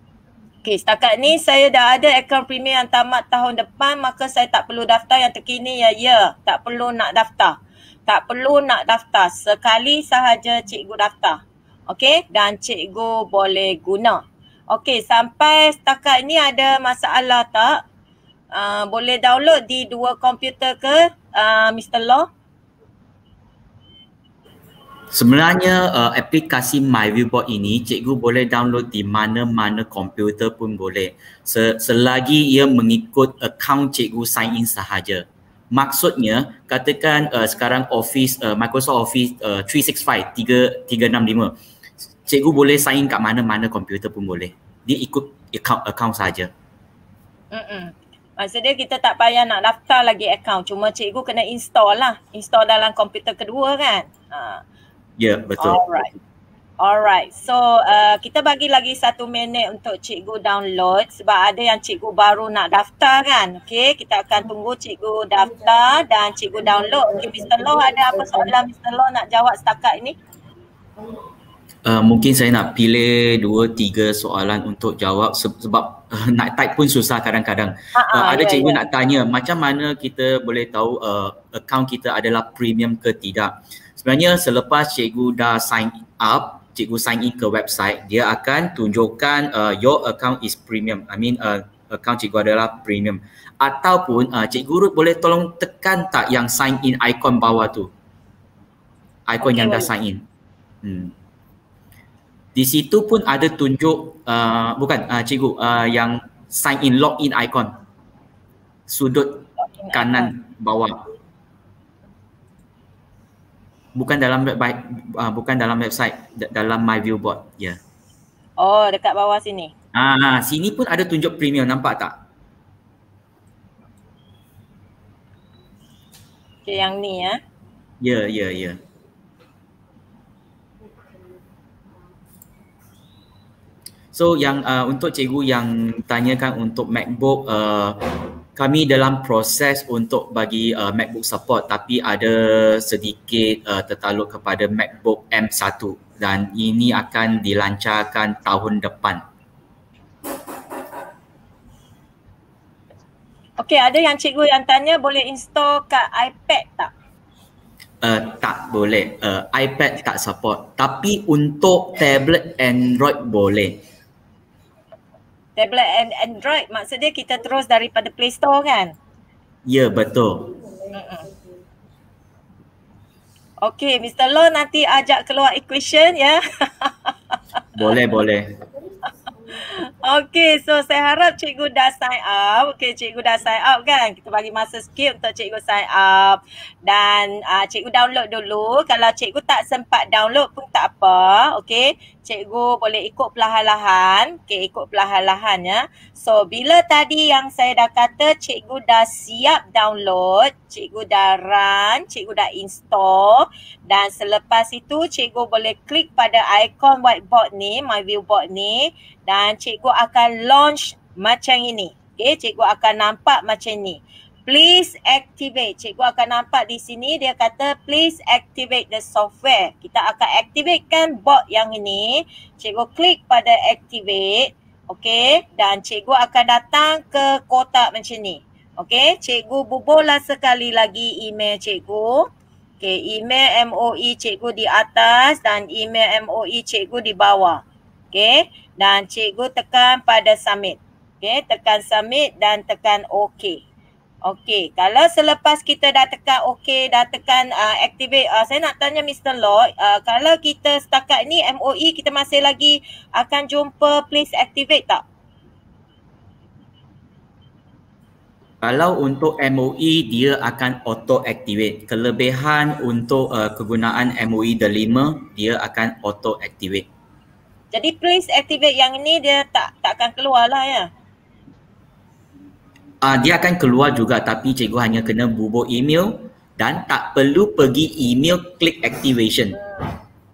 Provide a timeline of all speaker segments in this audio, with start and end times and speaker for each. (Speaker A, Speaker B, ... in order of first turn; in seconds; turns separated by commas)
Speaker A: 0.6-17.8, Speaker A: 18.5-22.3, Speaker B: 25.1-41.5, Speaker B: 42.3-46.5, Speaker A: 47.5-54.6, Speaker B: 55.2-55.8, Speaker A: 55.6-56.1, Speaker A: 56.8-70.2, Speaker B: 71.8-97.9, Speaker A: 77.9-78.8, Speaker B: 99.3-100.2, Speaker A: 99.4-99.9, Speaker B: 100.8-101.1, Speaker B: 102.5-107.7, Speaker B: 108.9-111.0, Speaker A: 109.6-110.3, Speaker B: 113.9-117.8, Speaker A: 118.6-119.7, Speaker B: 119.9-122.2, Speaker A: 126.6-127.4, Speaker B: 128.0-128.8, Speaker B: 134.1-138.0, Speaker B: 138.6-149.2, Speaker A: 153.6-156.9, Speaker B: 158.0-163.8, Speaker A: 165.6-168.9, Speaker B: 169.7-170.5, Speaker A: 170.9-171.2, Speaker A: 173.6-177.6, Speaker B: 177.8-178.5, Speaker A: 179.6-232.3, Speaker A: 232.8-243.6, Speaker A: 244.2-255.0, Speaker B: 258.6-266.9, Speaker A: 267.7-270.9, Speaker B: 273.0-279.6